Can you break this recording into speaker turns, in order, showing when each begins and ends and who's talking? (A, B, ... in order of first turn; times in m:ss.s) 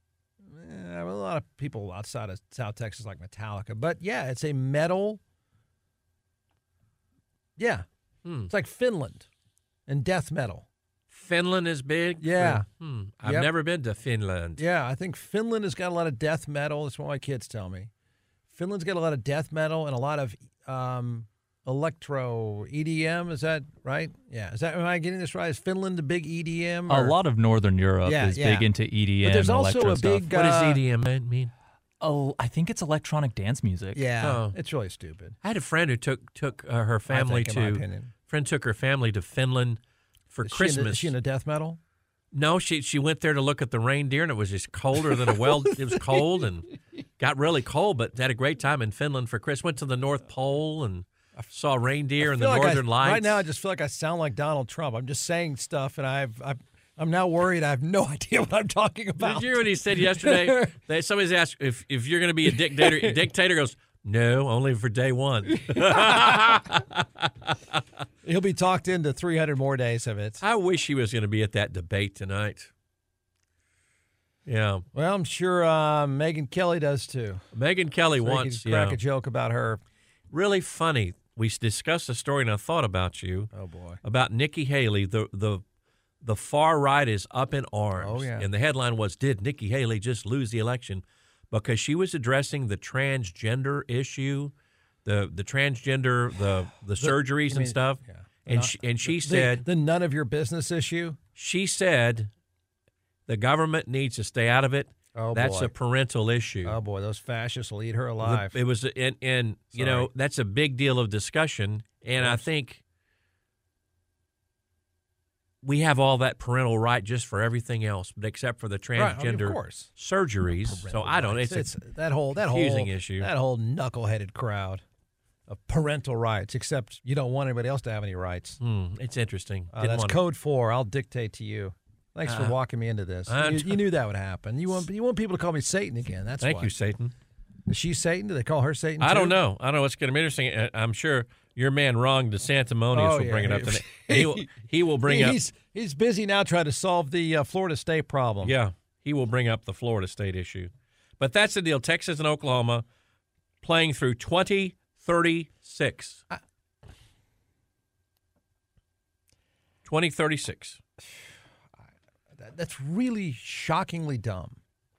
0:00.4-0:05.2 A
0:07.6-0:07.8 A
0:08.2-0:08.5 B
0:08.5-0:09.3 A
0:09.9-0:10.7 A
0:11.1-0:14.6 B
0:12.2-0:12.7 A
0:13.2-0:13.5 A
0:14.6-0:17.9 A
0:18.5-0:27.2 A
0:26.9-0:30.3 C
0:28.0-0:28.7 A
0:29.2-0:30.8 A
0:30.3-0:31.5 B
0:32.0-0:34.0 C
0:33.9-0:35.4 A
0:34.2-0:34.6 B
0:35.4-0:39.8 B
0:37.1-0:38.1 A
0:40.3-0:41.1 B
0:40.4-0:41.8 A
0:42.3-0:46.7 B
0:45.9-0:46.1 A
0:47.2-0:53.4 B
0:52.2-1:00.8 A
0:59.2-1:07.8 B
1:02.5-1:03.2 A
1:05.5-1:06.6 A
1:08.2-1:10.4 A
1:10.4-1:12.7 B
1:14.5-1:14.8 B
1:14.9-1:17.4 A
1:17.5-1:19.0 B
1:18.2-1:19.8 A
1:20.3-1:23.5 B
1:23.5-1:24.0 A
1:24.0-1:25.6 B
1:26.2-1:39.7 B
1:28.0-1:28.5 A
1:37.0-1:41.2 A
1:41.4-1:42.3 B
1:43.3-1:46.8 B
1:45.2-1:45.7 A
1:46.6-1:48.6 A
1:48.2-1:52.8 B
1:49.7-1:50.1 A
1:52.2-1:52.5 A
1:55.6-2:01.7 B
1:59.0-1:59.9 A
2:00.5-2:04.8 A
2:02.4-2:03.3 B
2:05.5-2:08.6 A
2:08.6-2:10.2 B
2:09.7-2:16.7 A
2:12.3-2:12.6 B
2:13.3-2:13.8 B
2:16.4-2:17.1 B
2:17.7-2:19.4 A
2:19.0-2:25.4 B
2:22.9-2:28.6 A
2:28.4-2:32.8 B
2:33.6-2:36.2 B
2:39.8-2:40.8 B
2:42.4-2:44.6 A